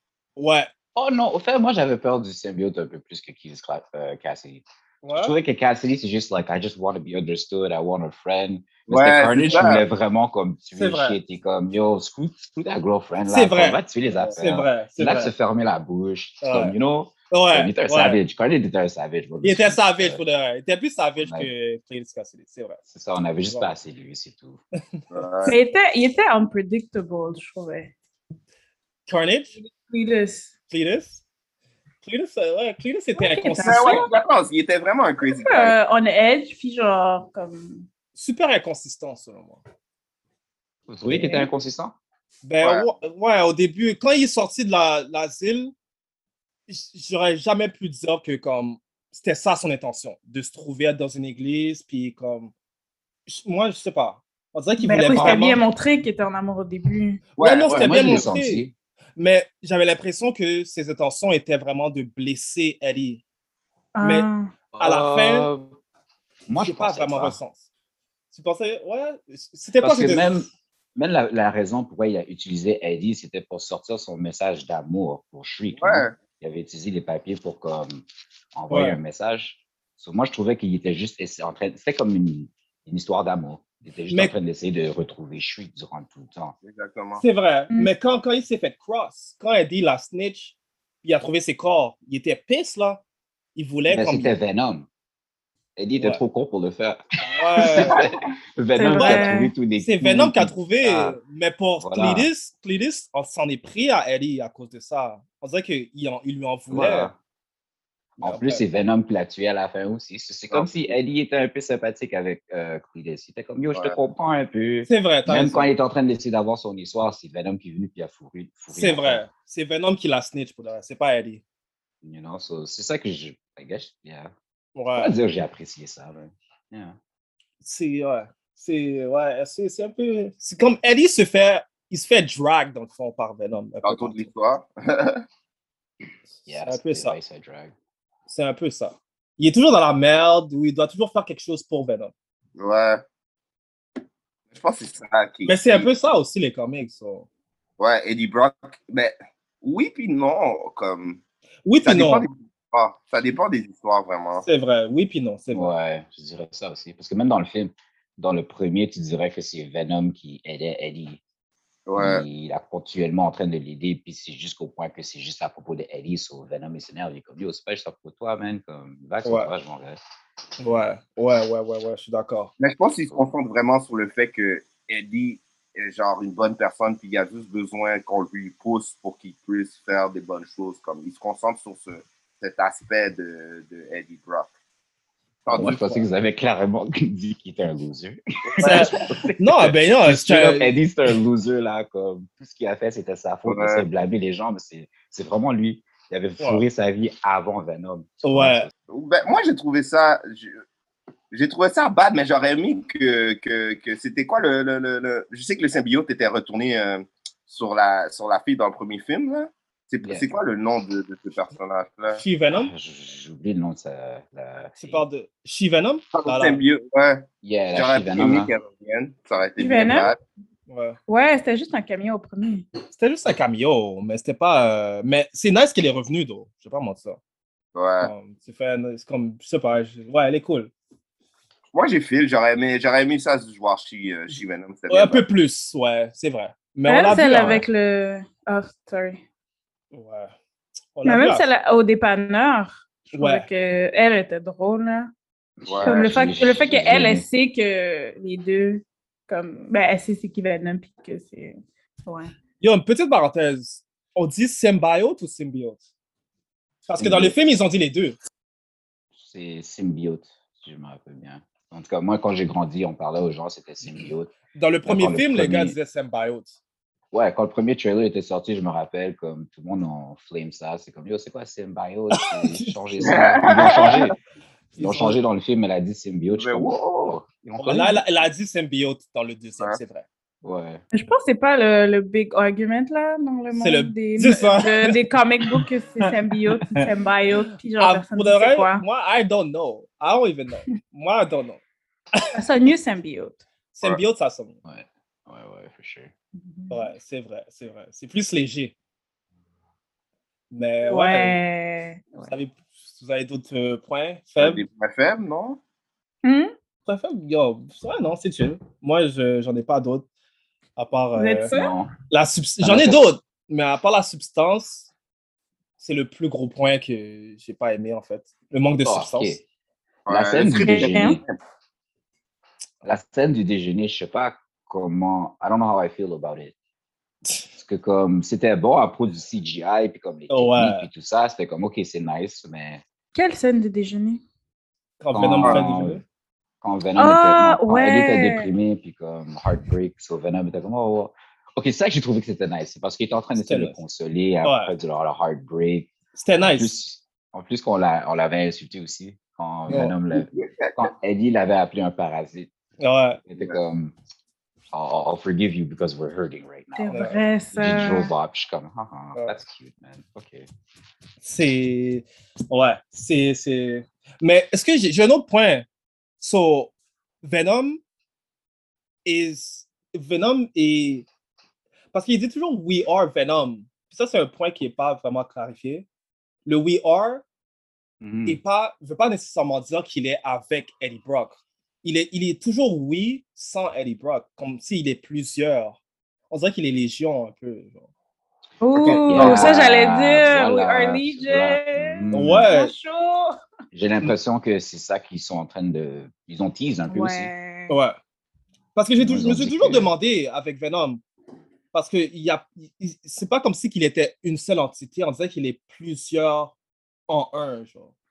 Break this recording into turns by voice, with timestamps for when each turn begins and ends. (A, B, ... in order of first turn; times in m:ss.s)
0:00.4-0:00.7 A
0:00.9-0:20.2 B
0:05.0-0:05.3 A
0:08.9-0:09.8 C
0:10.8-0:11.2 A
0:13.3-0:15.3 A
0:16.4-0:16.7 A
0:17.3-0:18.2 A
0:19.4-0:22.8 A
0:21.2-0:21.5 B
0:22.9-0:24.6 B
0:23.4-0:23.7 A
0:25.1-0:25.5 C
0:25.4-0:27.9 D
0:29.1-0:29.5 A
0:29.6-0:30.5 D
0:30.7-0:31.2 A
0:32.0-0:34.1 A
0:33.2-0:34.1 D
0:33.6-0:35.7 C
0:35.3-0:37.9 D
0:38.2-0:39.6 A
0:40.9-0:42.0 B
0:41.1-0:41.4 A
0:42.4-0:45.7 A
0:46.7-0:52.5 A
0:53.3-0:55.6 A
0:54.8-0:57.2 D
0:55.1-0:55.4 B
0:57.4-0:58.3 C
0:57.4-0:58.6 A
0:57.6-0:58.7 B
0:59.2-1:03.2 A
1:03.9-1:04.5 D
1:04.0-1:04.3 A
1:04.7-1:05.8 B
1:04.8-1:05.5 A
1:06.5-1:07.4 B
1:06.6-1:07.6 A
1:08.3-1:10.5 A
1:09.8-1:26.6 B
1:15.7-1:16.2 C
1:18.7-1:19.0 A
1:26.6-1:27.2 C
1:27.2-1:33.0 A
1:33.6-1:34.3 A
1:33.9-1:34.9 B
1:35.8-1:41.2 B
1:36.0-1:36.2 A
1:37.3-1:38.0 A
1:38.7-1:39.5 D
1:38.9-1:47.1 A
1:41.8-1:42.3 B
1:46.7-1:47.1 B
1:48.2-1:59.2 B
1:48.2-1:48.6 A
1:50.5-1:50.9 C
1:54.9-1:55.7 A
1:58.7-2:01.4 A
2:02.0-2:04.3 B
2:04.7-2:05.1 A
2:04.9-2:07.0 B
2:07.6-2:14.3 A
2:13.8-2:15.2 C
2:16.4-2:17.2 A
2:16.5-2:17.7 B
2:18.3-2:22.1 A
2:22.6-2:23.0 C
2:24.5-2:25.9 C
2:25.4-2:27.3 A
2:27.8-2:31.2 C
2:31.6-2:32.2 A
2:31.8-2:34.4 C
2:34.4-2:35.7 A
2:35.5-2:41.2 B
2:41.9-2:42.2 C
2:42.0-2:50.0 B
2:49.2-2:49.5 A
2:50.6-2:52.5 A
2:52.6-3:04.5 C
3:05.4-3:06.0 C
3:05.5-3:18.7 B
3:08.5-3:08.9 C
3:08.6-3:10.8 A
3:13.5-3:13.8 C
3:16.4-3:16.6 A
3:18.2-3:18.7 A
3:18.9-3:20.6 C
3:21.3-3:32.2 C
3:30.0-3:30.3 B
3:32.1-3:32.7 A
3:32.5-3:35.0 B
3:34.8-3:36.6 A
3:36.1-3:40.2 C
3:37.4-3:38.5 B
3:39.6-3:40.1 D
3:40.7-3:41.0 A
3:41.1-3:42.6 D
3:42.9-3:47.2 A
3:47.7-3:48.1 C
3:48.0-3:50.7 A
3:51.7-3:55.2 C
3:54.9-3:57.6 A
3:56.8-3:59.2 D
3:59.9-4:00.3 A
4:00.9-4:01.4 A
4:01.0-4:05.1 D
4:03.1-4:03.5 A
4:05.6-4:07.2 B
4:05.6-4:06.0 C
4:05.8-4:12.3 D
4:12.6-4:15.8 A
4:16.9-4:18.2 A
4:17.0-4:17.4 B
4:19.2-4:24.3 B
4:24.5-4:26.6 A
4:24.8-4:25.8 B
4:27.1-4:34.2 B
4:32.3-4:32.7 A
4:33.0-4:34.0 C
4:34.7-4:35.2 A
4:34.8-4:38.0 B
4:36.4-4:37.1 C
4:37.6-4:40.0 A
4:40.4-4:40.8 B
4:40.9-4:48.8 D
4:43.5-4:45.6 A
4:47.8-4:51.6 A
4:52.3-4:53.4 D
4:53.7-4:54.6 A
4:54.6-4:56.1 B
4:56.3-4:56.9 D
4:56.7-4:58.7 A
5:00.5-5:01.4 A
5:00.8-5:02.0 D
5:02.3-5:04.6 A
5:04.4-5:05.6 C
5:06.2-5:06.5 D
5:06.8-5:10.0 A
5:10.8-5:11.5 A
5:11.2-5:11.7 D
5:11.5-5:11.9 B
5:12.1-5:14.9 A
5:12.6-5:13.1 B
5:15.8-5:19.4 A
5:18.8-5:19.4 B
5:20.1-5:21.3 C
5:20.1-5:21.2 B
5:20.6-5:21.2 D
5:22.8-5:26.5 B
5:27.5-5:32.8 B
5:30.3-5:30.9 A
5:33.1-5:34.2 D
5:35.0-5:36.0 A
5:35.1-5:36.0 B
5:36.6-5:52.5 B
5:37.0-5:38.5 D
5:43.4-5:43.8 A
5:44.4-5:44.7 A
5:46.2-5:46.7 A
5:49.7-5:49.9 A
5:50.1-5:50.4 C
5:52.8-5:53.2 A
5:53.3-5:53.9 B
5:54.7-6:00.5 B
5:56.8-5:58.1 D
6:01.2-6:05.6 A
6:06.2-6:06.7 A
6:07.2-6:07.8 A
6:09.0-6:11.0 A
6:11.9-6:15.8 A
6:16.4-6:17.2 A
6:18.0-6:18.4 B
6:18.2-6:25.8 A
6:26.3-6:27.9 A
6:28.6-6:33.4 D
6:28.7-6:29.5 A
6:28.8-6:32.5 B
6:32.1-6:32.7 A
6:33.7-6:37.3 B
6:36.9-6:37.8 D
6:37.7-6:38.0 A
6:38.8-6:41.0 A
6:39.0-6:39.9 B
6:41.7-6:46.5 A
6:47.1-6:47.9 A